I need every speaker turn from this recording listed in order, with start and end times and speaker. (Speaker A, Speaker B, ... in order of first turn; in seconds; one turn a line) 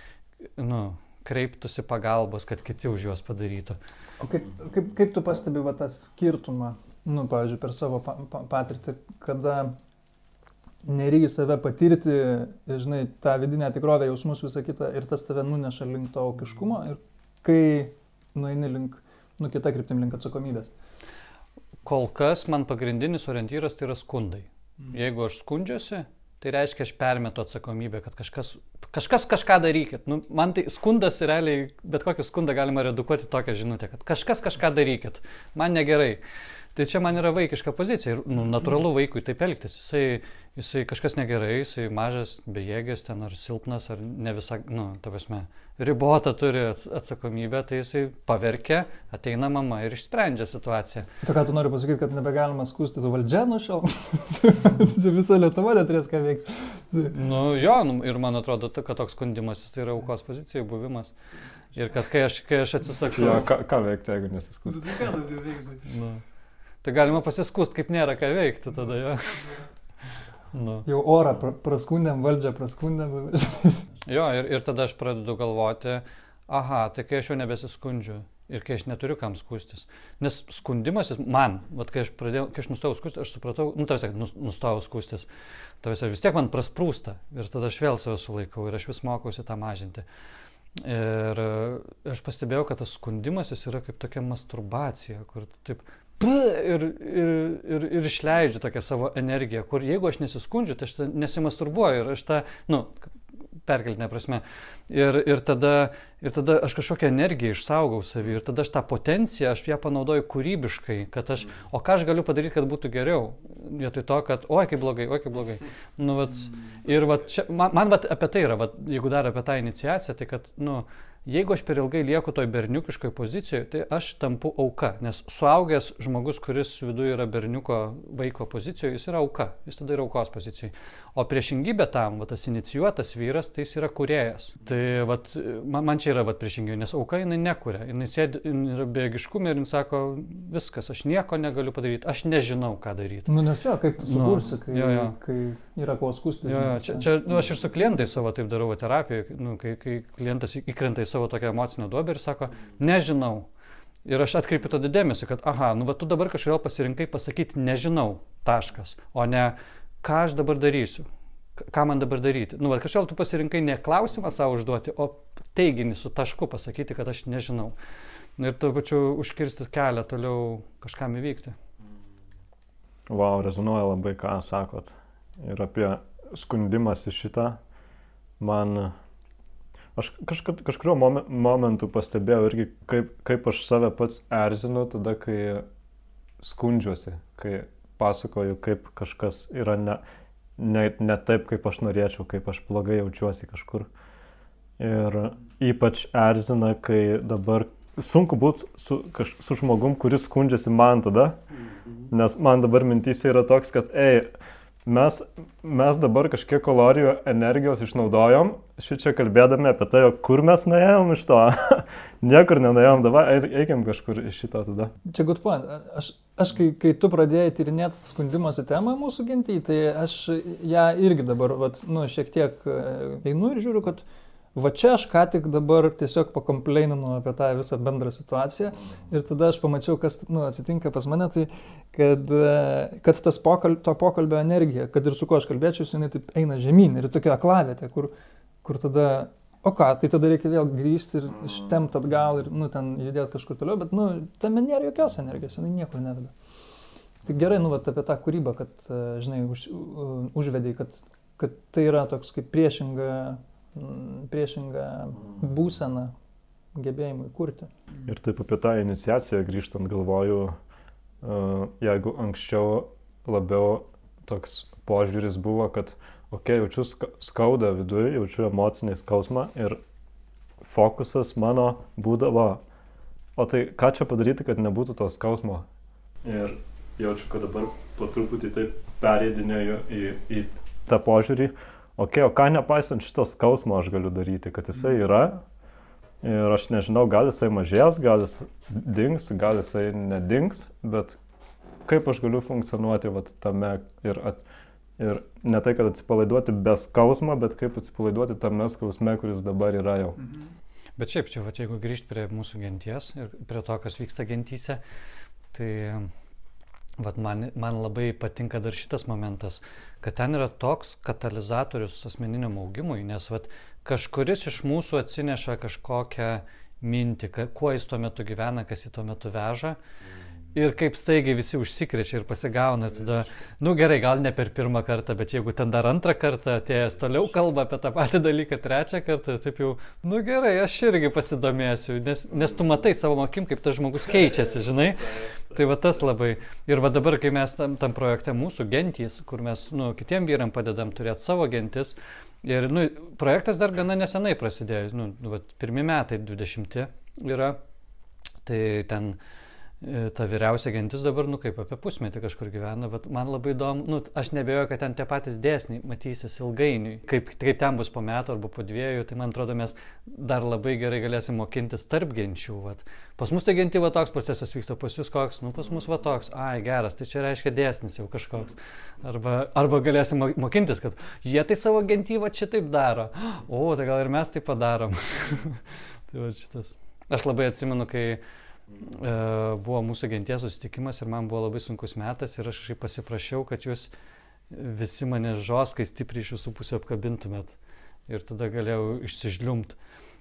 Speaker A: 0.4-3.8
Speaker B: 4.2-9.7
Speaker B: 10.8-20.7
Speaker A: 21.8-36.2
Speaker A: 36.7-51.1
Speaker B: 51.2-57.1
Speaker A: 57.1-61.1
Speaker A: 61.7-63.5
Speaker C: 63.1-65.0
Speaker B: 64.8-65.8
Speaker A: 65.8-66.2
Speaker A: 66.8-69.5
Speaker A: 70.5-70.8
Speaker B: 70.8-73.8
Speaker A: 74.0-85.3
Speaker A: 85.8-90.0
Speaker A: 90.8-103.1
Speaker A: 103.7-143.3
Speaker B: 143.3-147.1
Speaker A: 144.0-145.2
Speaker A: 146.4-153.5
Speaker A: 154.0-161.1
Speaker A: 161.6-167.7
Speaker A: 168.4-171.6
Speaker C: 173.1-177.6
Speaker C: 178.4-178.9
Speaker C: 179.9-185.7
Speaker C: 186.4-190.0
Speaker C: 190.6-193.9
Speaker C: 194.8-201.4
Speaker C: 202.0-204.3
Speaker C: 204.8-214.9
Speaker B: 215.1-238.1
Speaker B: 238.6-246.3
Speaker B: 247.2-256.1
Speaker B: 256.7-257.7
Speaker C: 258.0-260.5
Speaker C: 261.2-269.8
Speaker C: 270.6-272.6
Speaker C: 273.4-275.6
Speaker C: 276.2-285.4
Speaker C: 286.2-291.2
Speaker C: 291.8-294.4
Speaker C: 295.0-300.2
Speaker A: 301.0-304.8
Speaker A: 305.5-306.1
Speaker A: 307.0-319.8
Speaker A: 320.5-347.6
Speaker A: 348.4-349.2
Speaker A: 349.8-378.2
Speaker A: 378.8-383.9
Speaker A: 384.5-389.8